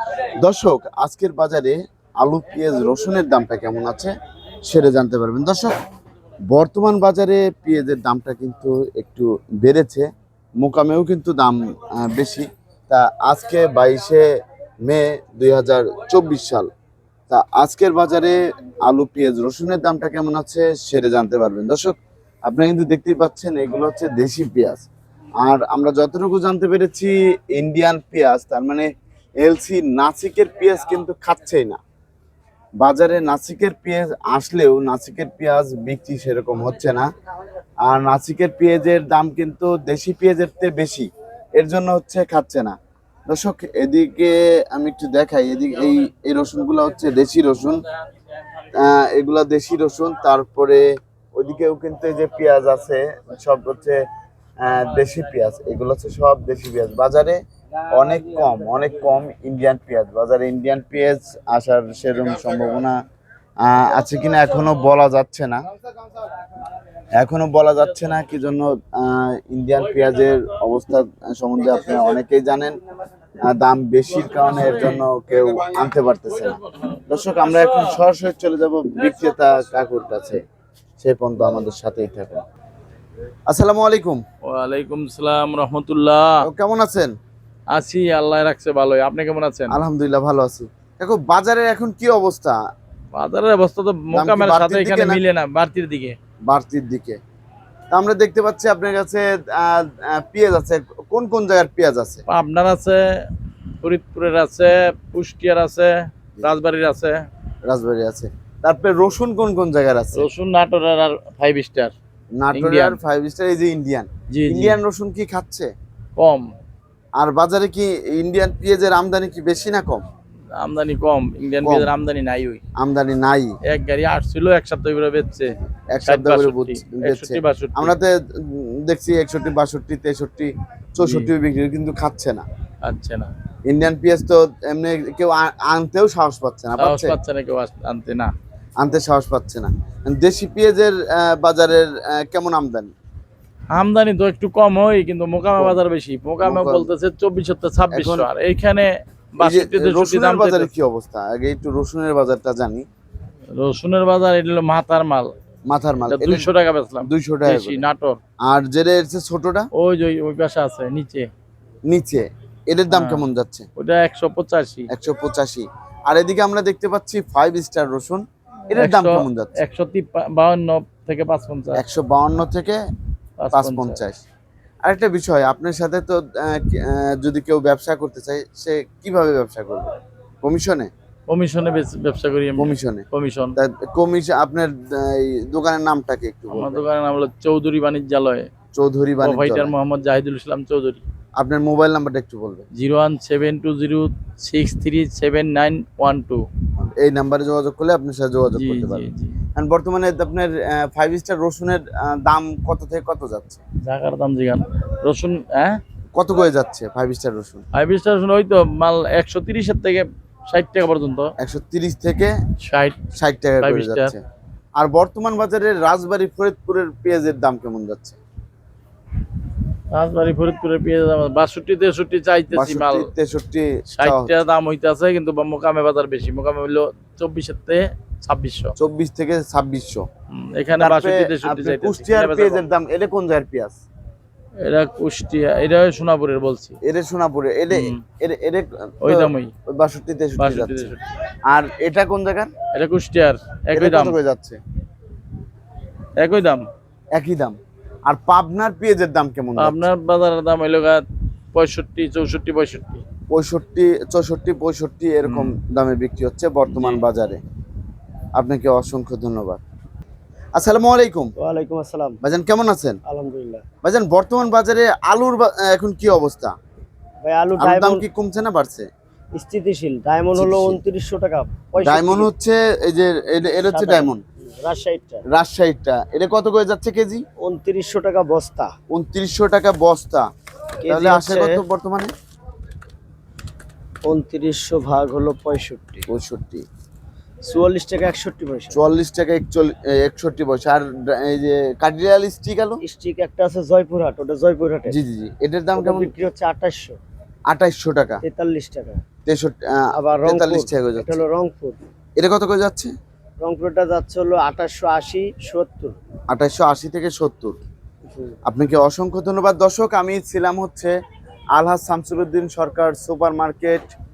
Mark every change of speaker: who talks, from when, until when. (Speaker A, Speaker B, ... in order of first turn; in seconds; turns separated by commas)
Speaker A: 0.4-4.1, Speaker A: 4.7-5.7, Speaker A: 6.5-10.1, Speaker A: 10.6-14.2, Speaker A: 14.8-16.7, Speaker A: 17.3-21.9, Speaker A: 22.5-24.9, Speaker A: 25.4-28.9, Speaker A: 29.4-31.8, Speaker A: 32.8-37.1, Speaker A: 37.9-42.8, Speaker A: 43.3-47.8, Speaker A: 48.8-50.8, Speaker A: 51.4-54.0, Speaker A: 54.6-57.4, Speaker A: 57.9-63.0, Speaker A: 63.6-65.6, Speaker A: 67.2-72.8, Speaker A: 73.5-80.4, Speaker B: 74.6-75.0, Speaker B: 76.8-78.0, Speaker A: 81.0-82.4, Speaker A: 83.5-84.2, Speaker B: 84.5-86.3, Speaker A: 86.4-87.1, Speaker B: 87.7-89.8, Speaker A: 89.7-92.6, Speaker B: 93.1-96.2, Speaker A: 94.1-95.2, Speaker A: 96.5-97.2, Speaker A: 97.9-102.2, Speaker B: 102.3-103.3, Speaker B: 103.8-107.2, Speaker A: 107.7-110.3, Speaker B: 110.1-111.9, Speaker A: 112.4-115.7, Speaker B: 112.5-113.0, Speaker B: 114.3-114.8, Speaker B: 116.2-116.5, Speaker A: 117.2-120.0, Speaker B: 120.6-122.6, Speaker A: 121.6-121.9, Speaker A: 122.8-123.5, Speaker B: 123.7-128.0, Speaker A: 125.9-132.4, Speaker B: 131.0-131.3, Speaker B: 132.8-133.3, Speaker A: 133.7-137.2, Speaker B: 136.8-138.3, Speaker A: 138.8-142.9, Speaker B: 143.7-150.7, Speaker A: 146.4-146.9, Speaker A: 147.9-148.3, Speaker A: 149.4-152.8, Speaker B: 153.6-155.3, Speaker A: 155.7-156.5, Speaker B: 156.1-158.2, Speaker A: 157.1-157.8, Speaker A: 158.4-159.7, Speaker B: 159.7-161.3, Speaker A: 161.9-163.7, Speaker B: 162.9-164.9, Speaker A: 164.9-169.6, Speaker B: 168.7-171.8, Speaker A: 171.7-172.8, Speaker B: 173.4-174.0, Speaker A: 173.5-174.2, Speaker A: 174.8-179.9, Speaker A: 180.4-180.9, Speaker B: 181.3-183.5, Speaker A: 182.6-183.0, Speaker A: 183.6-186.8, Speaker B: 186.5-188.5, Speaker A: 188.8-189.7, Speaker B: 189.2-191.0, Speaker A: 191.4-192.7, Speaker B: 192.8-196.4, Speaker A: 196.8-203.6, Speaker B: 198.6-199.4, Speaker B: 203.8-205.8, Speaker A: 206.2-207.6, Speaker B: 207.7-211.3, Speaker A: 211.4-212.3, Speaker B: 212.6-213.0, Speaker A: 213.1-214.2, Speaker B: 213.6-214.1, Speaker A: 214.8-218.2, Speaker B: 219.9-223.1, Speaker A: 222.5-224.4, Speaker B: 223.9-228.7, Speaker A: 228.8-230.0, Speaker B: 230.3-232.6, Speaker A: 230.8-233.8, Speaker B: 234.6-236.8, Speaker A: 236.8-240.9, Speaker B: 237.7-238.0, Speaker B: 239.0-239.5, Speaker B: 240.4-241.0, Speaker A: 241.5-242.5, Speaker B: 242.7-244.2, Speaker A: 243.7-244.6, Speaker B: 246.2-246.6, Speaker A: 247.1-249.9, Speaker B: 249.6-251.0, Speaker B: 251.5-253.0, Speaker A: 253.3-257.4, Speaker B: 255.2-255.5, Speaker B: 256.7-257.0, Speaker A: 258.4-259.6, Speaker A: 260.6-261.3, Speaker C: 261.4-262.2, Speaker A: 262.2-263.0, Speaker C: 263.0-263.6, Speaker A: 263.8-266.5, Speaker C: 267.2-268.1, Speaker A: 267.6-268.9, Speaker C: 269.3-272.3, Speaker A: 270.3-270.8, Speaker A: 271.8-274.2, Speaker C: 273.6-275.2, Speaker A: 275.3-277.2, Speaker C: 277.4-278.7, Speaker A: 278.9-280.3, Speaker C: 280.8-281.6, Speaker A: 280.9-282.1, Speaker C: 284.0-286.1, Speaker A: 286.1-286.6, Speaker C: 287.4-288.8, Speaker A: 288.7-292.8, Speaker C: 292.8-295.0, Speaker A: 294.9-296.1, Speaker C: 295.8-297.0, Speaker A: 297.5-298.2, Speaker C: 298.2-299.0, Speaker A: 299.2-301.2, Speaker C: 299.9-301.8, Speaker A: 302.2-302.9, Speaker C: 303.4-305.9, Speaker A: 306.3-307.6, Speaker C: 308.1-308.4, Speaker A: 308.5-310.9, Speaker A: 311.6-313.9